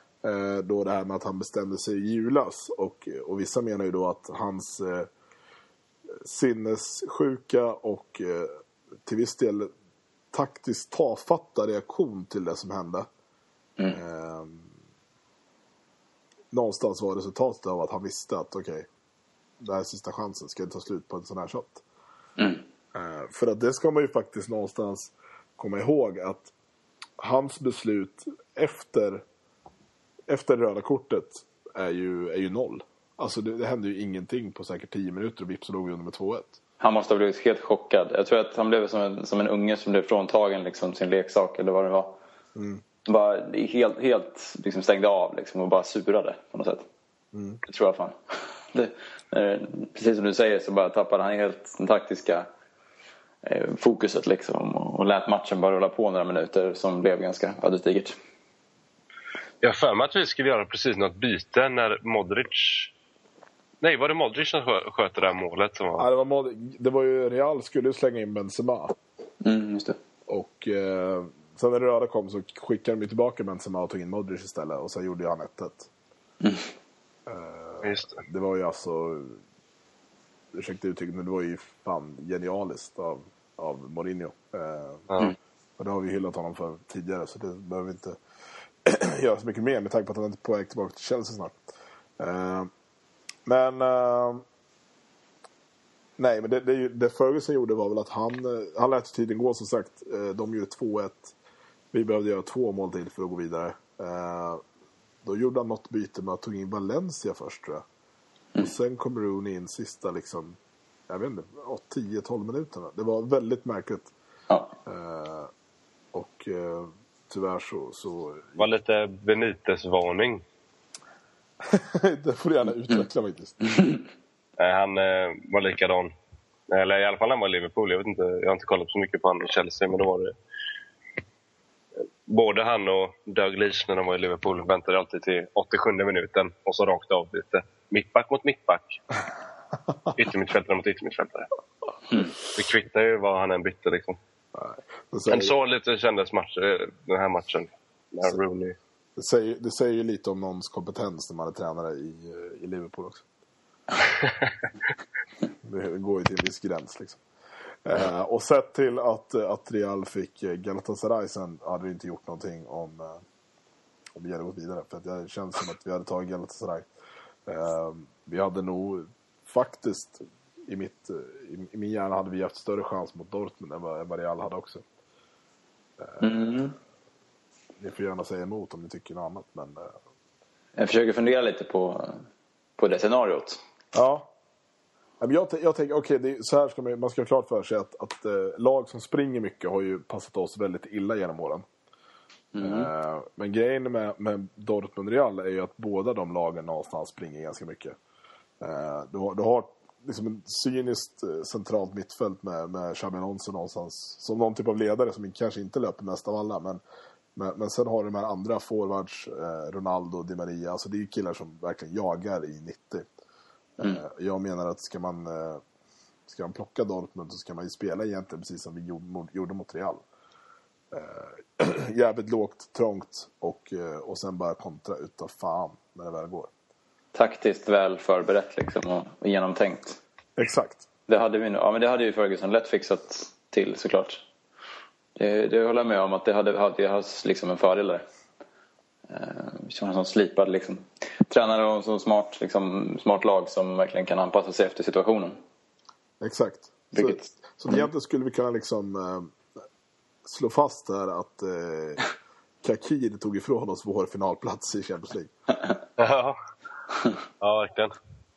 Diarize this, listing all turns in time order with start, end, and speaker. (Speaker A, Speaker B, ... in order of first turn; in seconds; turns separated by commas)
Speaker A: 0.2-5.1, Speaker A: 6.2-9.7, Speaker A: 10.3-13.1, Speaker A: 13.9-14.7, Speaker A: 16.5-18.9, Speaker A: 19.6-21.8, Speaker B: 22.4-22.6, Speaker A: 22.9-26.5, Speaker A: 27.2-29.2, Speaker A: 30.3-36.6, Speaker B: 36.8-42.2, Speaker A: 42.5-42.8, Speaker B: 43.0-46.9, Speaker A: 47.3-47.6, Speaker B: 47.6-52.5, Speaker B: 53.4-58.2, Speaker C: 59.6-62.9, Speaker C: 63.8-66.0, Speaker A: 66.0-69.0, Speaker B: 69.4-70.0, Speaker A: 70.3-75.9, Speaker B: 76.4-76.7, Speaker A: 77.3-79.4, Speaker C: 77.8-78.2, Speaker A: 80.5-85.1, Speaker A: 85.8-88.2, Speaker A: 88.8-91.6, Speaker A: 92.2-92.7, Speaker A: 93.5-94.4, Speaker A: 96.2-101.3, Speaker A: 101.9-104.6, Speaker A: 105.2-107.8, Speaker A: 108.6-110.6, Speaker A: 111.1-114.1, Speaker A: 114.8-115.5, Speaker A: 116.1-118.7, Speaker C: 118.6-120.4, Speaker A: 121.7-123.8, Speaker C: 124.6-126.1, Speaker C: 126.7-130.3, Speaker C: 132.2-139.0, Speaker C: 140.1-141.5, Speaker C: 142.5-144.2, Speaker A: 144.5-145.5, Speaker C: 145.3-148.8, Speaker A: 149.2-153.2, Speaker C: 154.2-154.5, Speaker A: 155.6-157.2, Speaker A: 157.8-163.2, Speaker A: 164.2-166.9, Speaker A: 167.5-174.8, Speaker A: 176.0-176.7, Speaker B: 176.2-176.7, Speaker A: 177.8-179.9, Speaker B: 180.8-182.2, Speaker B: 182.8-183.6, Speaker A: 183.9-184.3, Speaker A: 185.2-191.6, Speaker B: 192.5-192.9, Speaker A: 192.6-197.9, Speaker A: 198.6-206.8, Speaker A: 207.3-213.1, Speaker A: 213.8-215.6, Speaker A: 216.3-220.0, Speaker A: 220.9-226.5, Speaker B: 227.1-230.0, Speaker A: 230.4-230.8, Speaker B: 231.1-234.2, Speaker B: 235.2-238.0, Speaker B: 239.1-245.4, Speaker A: 246.2-249.4, Speaker B: 246.9-247.8, Speaker A: 250.2-252.0, Speaker A: 252.6-255.3, Speaker C: 256.0-256.4, Speaker C: 257.4-257.9